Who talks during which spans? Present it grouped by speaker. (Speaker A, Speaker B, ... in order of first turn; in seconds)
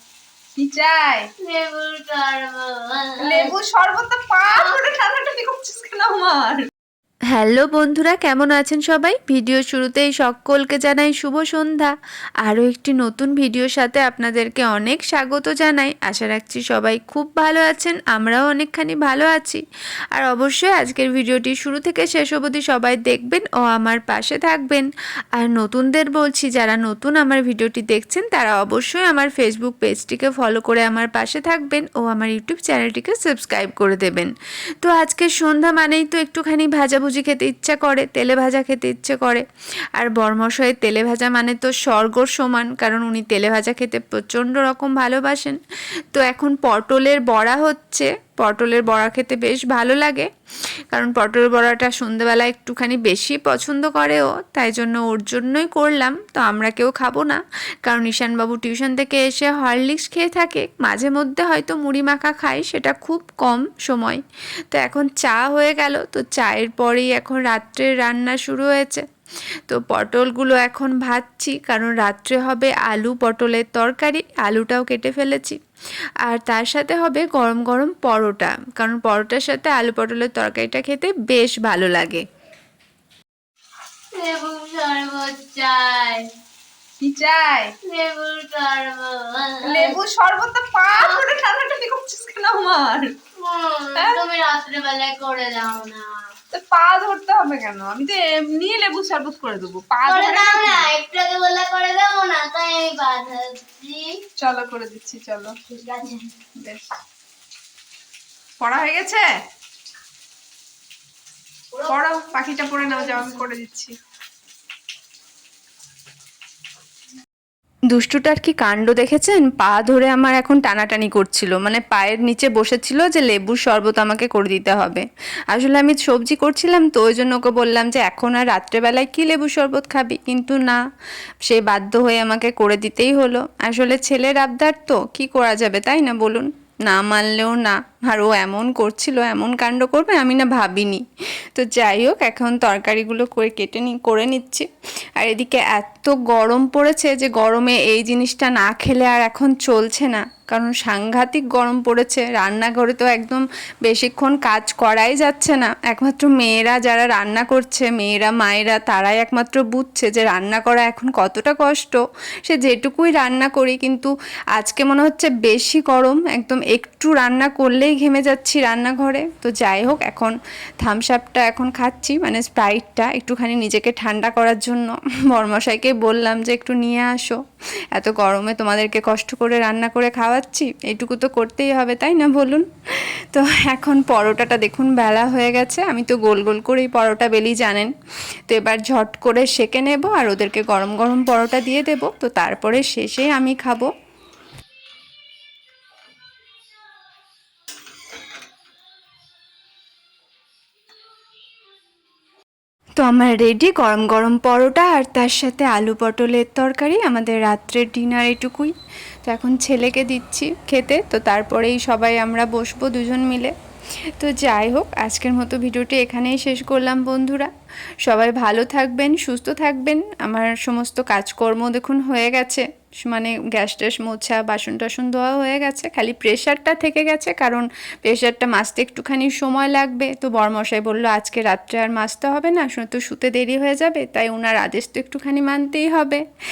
Speaker A: 0.6-1.3, 3.2-6.7, 87.0-87.7, 89.7-93.1, 94.0-94.2, 96.5-100.9, 104.4-105.6, 106.5-106.8, 108.6-109.3, 111.8-113.9
Speaker B: 1.4-3.5, 4.5-4.8, 84.1-86.3, 87.9-90.0, 90.9-91.3, 93.4-96.1, 100.1-104.1, 105.7-106.3, 112.9-113.4
Speaker C: 7.3-19.6, 20.1-39.5, 40.0-45.6, 46.1-50.3, 50.9-69.0, 69.7-75.6, 76.2-82.2, 117.9-130.8, 131.4-144.7, 145.2-177.4, 177.9-187.9, 188.5-193.9, 203.0-208.7, 209.3-213.5, 214.2-217.5, 218.0-236.2